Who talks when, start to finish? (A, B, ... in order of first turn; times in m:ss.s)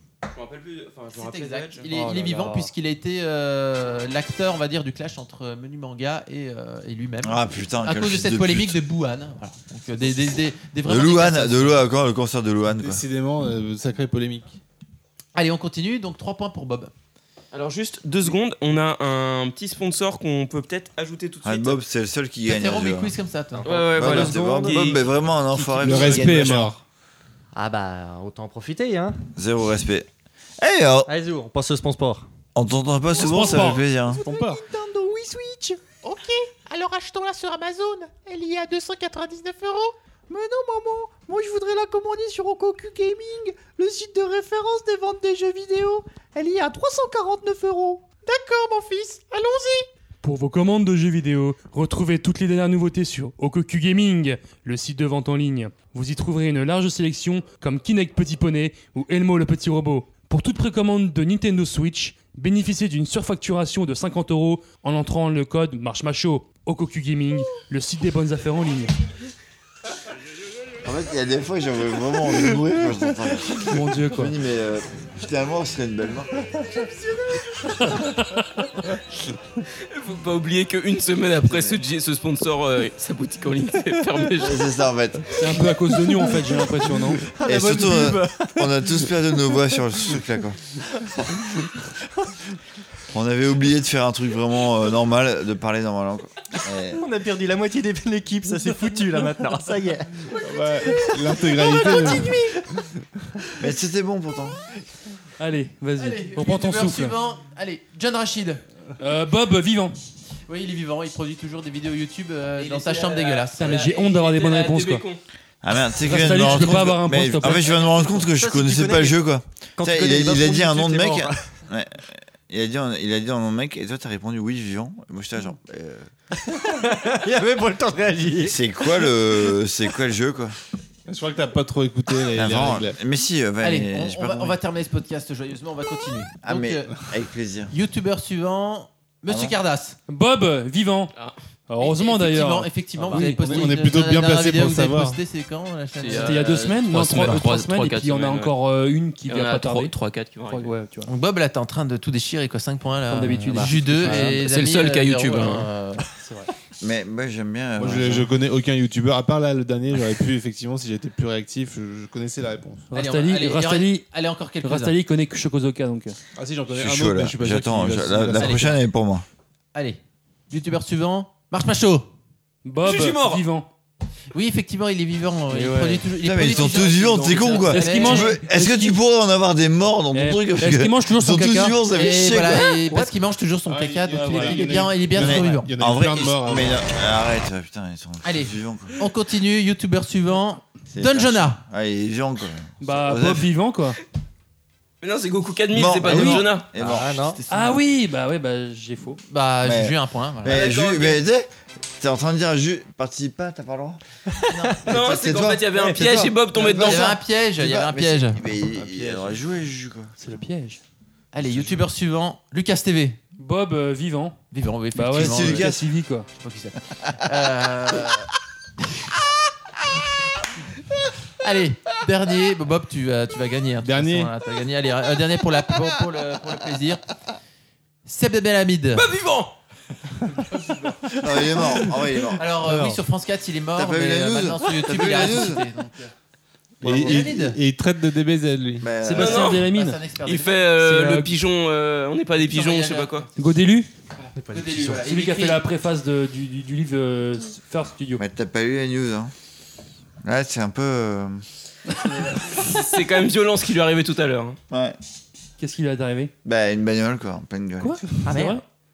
0:00.3-0:01.9 A
0:01.1-0:11.8 B
0:01.9-0:02.7 C
0:07.2-0:08.8 D
0:10.8-0:13.0 D
0:12.7-0:14.6 E
0:15.4-0:16.9 B
0:17.5-0:21.8 A
0:21.4-0:23.1 D
0:22.4-0:24.2 B
0:23.5-0:25.0 F
0:23.6-0:25.1 A
0:24.0-0:26.7 D
0:25.5-0:26.5 C
0:25.8-0:26.8 E
0:27.5-0:29.2 F
0:29.4-0:30.1 D
0:30.6-0:31.1 D
0:31.1-0:32.3 F
0:32.6-0:34.2 D
0:33.2-0:33.9 C
0:34.1-0:35.8 G
0:34.2-0:34.6 F
0:38.3-0:38.6 G
0:40.3-0:48.2 G
0:48.8-0:49.7 G
0:50.2-1:08.9 C
1:10.8-1:16.3 D
1:13.6-1:14.4 C
1:17.8-1:18.6 C
1:19.9-1:24.6 A
1:21.5-1:21.8 D
1:24.4-1:25.7 D
1:25.3-1:27.2 C
1:27.2-1:29.1 F
1:27.4-1:30.6 D
1:33.1-1:37.0 D
1:36.9-1:42.6 F
1:38.7-1:39.0 C
1:40.4-1:42.4 E
1:43.6-1:44.6 D
1:45.4-1:47.2 C
1:46.0-1:48.6 B
1:49.0-1:50.0 C
1:50.5-1:53.9 B
1:52.6-1:55.2 A
1:53.6-1:55.1 C
1:55.6-2:06.1 D
1:56.0-1:57.7 C
1:57.8-1:59.2 F
1:59.8-2:01.4 F
2:06.4-2:09.2 F
2:08.4-2:10.6 D
2:11.1-2:13.0 E
2:12.3-2:14.6 D
2:13.6-2:16.9 B
2:16.4-2:17.7 D
2:17.7-2:20.0 B
2:19.3-2:19.6 D
2:20.1-2:21.1 C
2:21.7-2:23.7 C
2:21.8-2:26.4 B
2:23.1-2:25.2 E
2:26.0-2:28.5 A
2:26.1-2:29.9 C
2:29.3-2:30.7 A
2:30.5-2:31.1 C
2:31.1-2:36.1 B
2:33.1-2:34.3 C
2:33.5-2:34.3 F
2:34.1-2:35.7 A
2:36.8-2:38.3 D
2:37.8-2:42.9 E
2:42.9-2:44.1 C
2:42.9-2:45.0 B
2:44.6-2:46.2 C
2:46.4-2:48.8 E
2:46.7-2:49.2 D
2:48.3-2:48.8 B
2:49.7-2:52.1 B
2:52.6-2:53.7 C
2:52.8-2:53.4 A
2:54.3-2:58.4 B
2:55.5-2:56.1 C
2:56.2-3:02.8 D
2:57.3-2:57.7 A
2:57.6-2:59.0 C
3:00.1-3:01.8 C
3:01.9-3:05.7 B
3:03.7-3:06.8 E
3:04.1-3:04.8 C
3:05.2-3:09.0 D
3:08.2-3:11.6 B
3:10.9-3:13.5 D
3:12.8-3:14.0 C
3:15.0-3:16.7 A
3:15.7-3:17.8 D
3:16.1-3:16.5 C
3:16.8-3:17.4 F
3:17.5-3:19.2 C
3:19.3-3:20.7 B
3:19.6-3:21.5 D
3:20.5-3:21.2 A
3:22.0-3:24.0 D
3:24.3-3:24.7 F
3:24.5-3:24.8 B
3:24.8-3:30.1 D
3:24.9-3:27.2 A
3:25.7-3:26.3 F
3:26.6-3:28.4 B
3:28.8-3:29.4 F
3:30.2-3:30.8 C
3:31.3-3:33.2 B
3:33.4-3:34.4 C
3:34.5-3:35.7 B
3:34.9-3:36.3 C
3:35.1-3:35.8 D
3:36.4-3:38.3 B
3:41.4-3:47.0 B
3:43.8-3:44.3 E
3:48.1-3:49.1 B
3:49.0-3:49.5 A
3:50.3-3:51.8 B
3:51.2-3:52.5 D
3:52.4-3:56.1 B
3:52.6-3:53.0 F
3:53.8-3:55.6 D
3:56.8-3:57.6 B
3:56.8-3:58.9 E
3:56.9-3:57.3 D
3:58.8-3:59.6 D
3:59.0-4:00.0 C
3:59.1-3:59.7 A
3:59.2-4:00.7 B
4:00.2-4:03.3 A
4:00.8-4:01.3 C
4:02.5-4:03.6 B
4:03.4-4:03.9 C
4:04.2-4:05.6 B
4:04.4-4:05.1 F
4:04.9-4:08.2 C
4:08.2-4:09.3 D
4:10.2-4:11.4 D
4:12.5-4:14.6 A
4:14.7-4:15.0 D
4:15.6-4:16.3 C
4:16.4-4:18.0 D
4:17.8-4:18.6 C
4:18.3-4:18.6 F